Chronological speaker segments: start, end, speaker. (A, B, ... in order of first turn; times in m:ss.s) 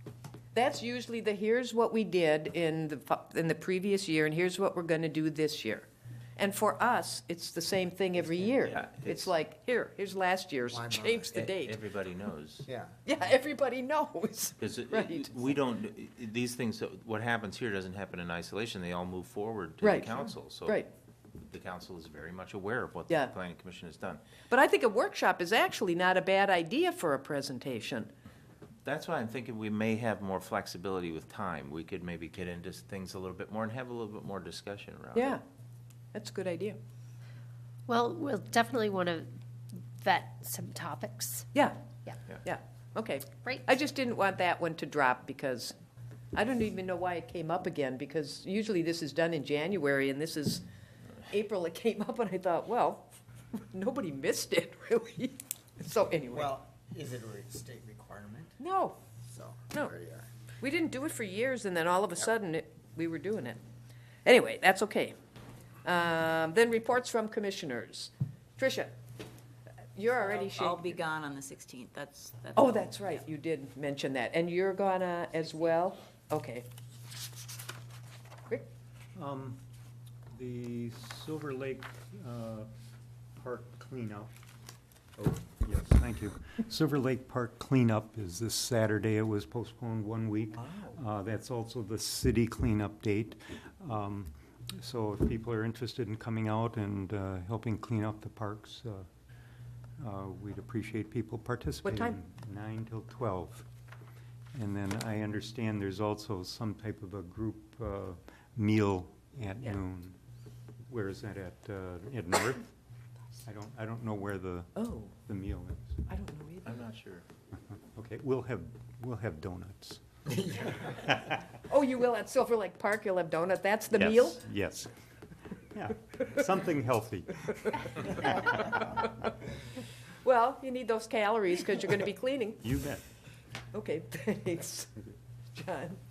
0:00.5-0:11.8 A
0:08.4-0:09.3 B
0:10.7-0:11.3 C
0:11.3-0:12.7 B
0:12.6-0:13.0 C
0:13.0-0:15.6 A
0:14.6-0:20.8 B
0:19.8-0:20.9 A
0:21.4-0:24.2 B
0:24.5-0:28.1 A
0:28.8-0:35.4 B
0:35.1-0:35.4 A
0:36.1-0:36.8 A
0:37.9-0:39.3 D
0:39.9-0:41.5 D
0:42.4-0:45.7 A
0:46.3-0:50.6 A
0:51.3-0:56.5 A
0:56.3-0:58.6 C
0:58.6-0:59.0 A
0:59.3-1:00.3 C
1:00.6-1:03.6 A
1:04.2-1:05.1 A
1:05.8-1:08.9 A
1:10.0-1:10.9 A
1:10.3-1:12.7 E
1:12.5-1:16.6 A
1:19.2-1:19.6 F
1:20.3-1:22.7 F
1:23.4-1:24.3 F
1:25.2-1:39.1 F
1:30.6-1:31.0 A
1:40.0-1:43.6 F
1:41.8-1:42.2 A
1:44.5-1:50.2 F
1:50.9-1:52.6 F
1:53.4-1:56.0 F
1:54.8-1:55.1 A
1:56.1-1:56.8 A
1:56.6-1:57.2 B
1:57.8-2:00.0 F
2:00.3-2:01.0 C
2:01.0-2:01.4 F
2:01.7-2:04.4 A
2:03.9-2:04.9 F
2:05.7-2:08.2 F
2:08.2-2:08.7 A
2:10.2-2:12.6 A
2:12.6-2:13.0 F
2:13.7-2:15.0 A
2:15.5-2:16.0 A